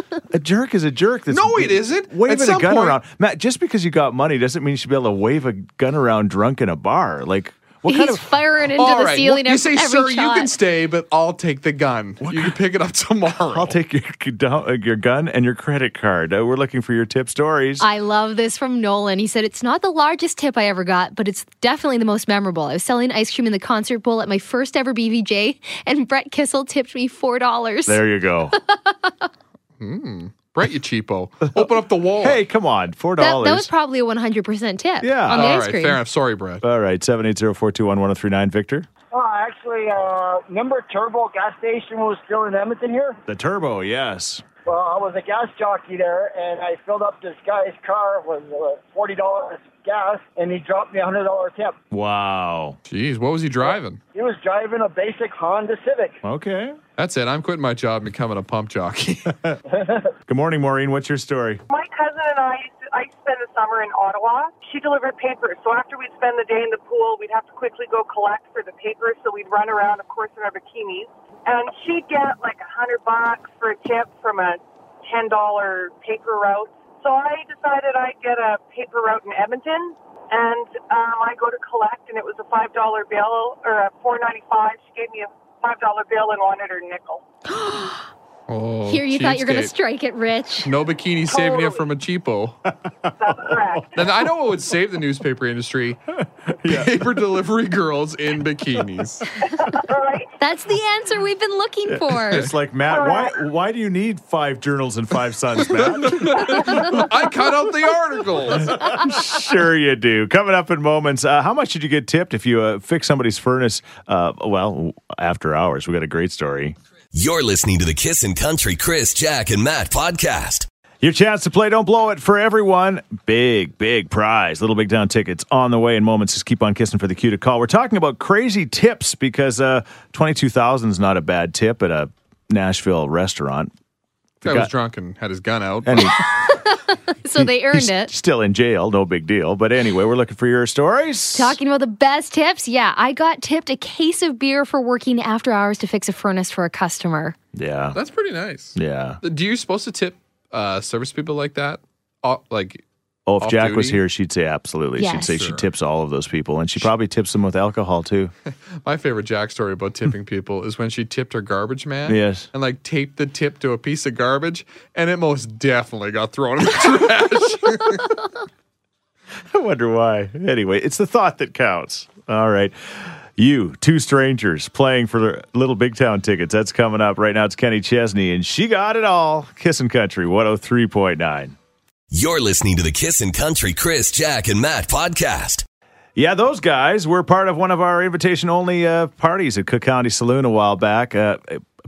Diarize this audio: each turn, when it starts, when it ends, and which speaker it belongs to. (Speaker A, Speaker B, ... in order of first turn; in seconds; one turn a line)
Speaker A: 0.3-8.3
Speaker B: 1.3-3.0
Speaker C: 7.9-10.6
Speaker B: 8.8-13.8
Speaker A: 12.2-12.6
Speaker A: 13.5-17.9
Speaker C: 17.8-28.0
Speaker A: 27.9-28.6
Speaker C: 28.5-29.3
Speaker B: 29.8-32.4
Speaker A: 32.2-33.7
Speaker C: 33.2-36.0
Speaker A: 35.0-35.5
Speaker B: 35.3-36.6
Speaker A: 36.6-38.9
Speaker D: 39.1-43.2
Speaker A: 43.3-44.4
Speaker D: 44.7-51.8
Speaker A: 51.9-52.8
Speaker B: 52.9-54.0
Speaker D: 54.1-56.2
Speaker A: 56.2-56.8
Speaker B: 57.0-59.4
Speaker D: 59.7-60.1
Speaker A: 60.3-61.6
Speaker E: 61.7-87.2
Speaker C: 87.5-88.1
Speaker B: 88.5-89.7
Speaker C: 88.9-90.7
Speaker B: 90.6-92.6
Speaker E: 91.3-91.8
Speaker E: 93.2-93.9
Speaker A: 93.3-94.1
Speaker B: 94.0-96.0
Speaker A: 96.5-97.1
Speaker B: 96.7-99.3
Speaker E: 99.6-100.3
Speaker C: 100.4-102.5
Speaker A: 101.9-107.3
Speaker E: 102.9-103.3
Speaker B: 105.7-108.8
Speaker A: 108.5-116.8
Speaker F: 117.1-120.7
Speaker A: 121.0-133.7
Speaker B: 134.4-136.2
Speaker A: 134.4-134.7
Speaker A: 135.8-136.2
Speaker C: 136.2-138.1
Speaker A: 137.3-141.6
Speaker C: 141.3-147.4
Speaker A: 147.5-148.0
Speaker B: 147.9-152.8
Speaker A: 148.8-149.2
Speaker A: 153.3-158.3
Speaker B: 153.4-154.0
Speaker C: 155.0-155.4
Speaker B: 155.3-155.7
Speaker B: 158.8-168.2
Speaker A: 162.1-162.5
Speaker A: 169.5-181.6
Speaker F: 182.1-185.6
Speaker A: 186.2-191.6